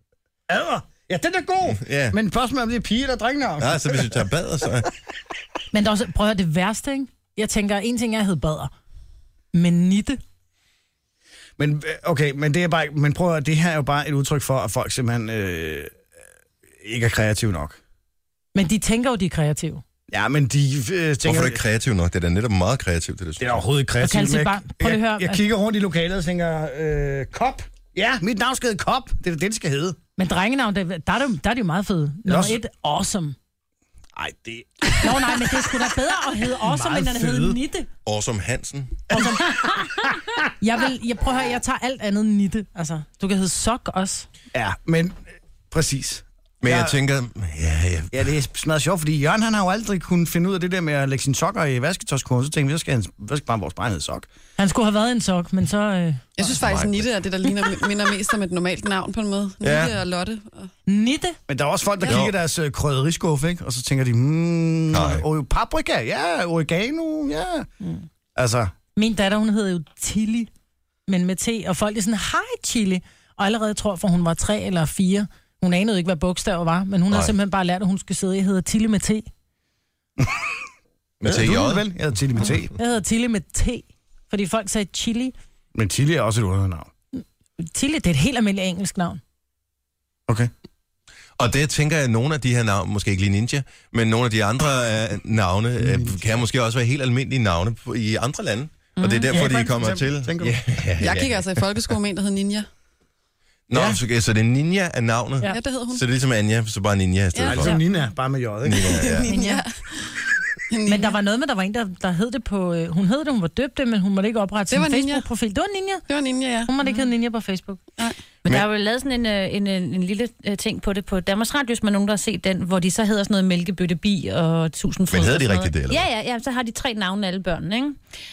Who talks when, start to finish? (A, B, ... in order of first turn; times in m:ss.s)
0:00.5-0:04.2 A
0:01.7-0:02.2 B
0:03.6-0:04.9 B
0:05.7-0:08.7 C
0:09.5-0:10.2 C
0:11.6-0:15.9 A
0:16.8-0:17.8 A
0:18.5-0:19.8 C
0:20.1-0:21.6 A
0:21.2-0:23.6 B
0:23.4-0:30.0 A
0:24.0-0:25.4 C
0:30.2-0:33.4 C
0:32.2-0:32.6 A
0:34.1-0:35.6 A
0:35.0-0:37.9 C
0:36.5-0:37.6 A
0:38.0-0:39.2 B
0:39.1-0:39.4 A
0:39.1-0:44.2 C
0:44.5-0:47.0 A
0:46.6-0:48.2 B
0:48.1-0:54.3 A
0:54.6-0:56.3 C
0:56.4-1:00.7 D
0:56.4-0:57.1 B
0:59.6-1:00.0 B
1:00.9-1:01.4 C
1:01.5-1:07.7 A
1:02.1-1:02.3 B
1:04.9-1:05.2 B
1:08.4-1:08.7 A
1:09.0-1:10.5 C
1:11.1-1:19.3 C
1:20.2-1:20.6 A
1:21.2-1:21.8 B
1:21.2-1:22.7 A
1:22.8-1:25.3 C
1:25.7-1:26.9 A
1:27.1-1:29.2 C
1:31.4-1:41.6 B
1:35.8-1:36.2 A
1:39.0-1:39.2 E
1:39.3-1:40.6 A
1:41.0-1:42.7 D
1:43.7-1:47.8 B
1:43.7-1:44.0 A
1:45.4-1:46.0 D
1:47.3-1:47.6 D
1:47.4-1:49.2 A
1:48.6-1:49.3 B
1:49.0-1:49.7 D
1:49.2-1:49.6 C
1:50.7-1:51.1 D
1:50.8-1:56.0 C
1:54.7-1:55.2 D
1:56.1-1:56.7 D
1:56.6-1:57.8 C
1:56.8-1:57.1 E
1:58.4-2:08.0 E
2:05.1-2:06.0 B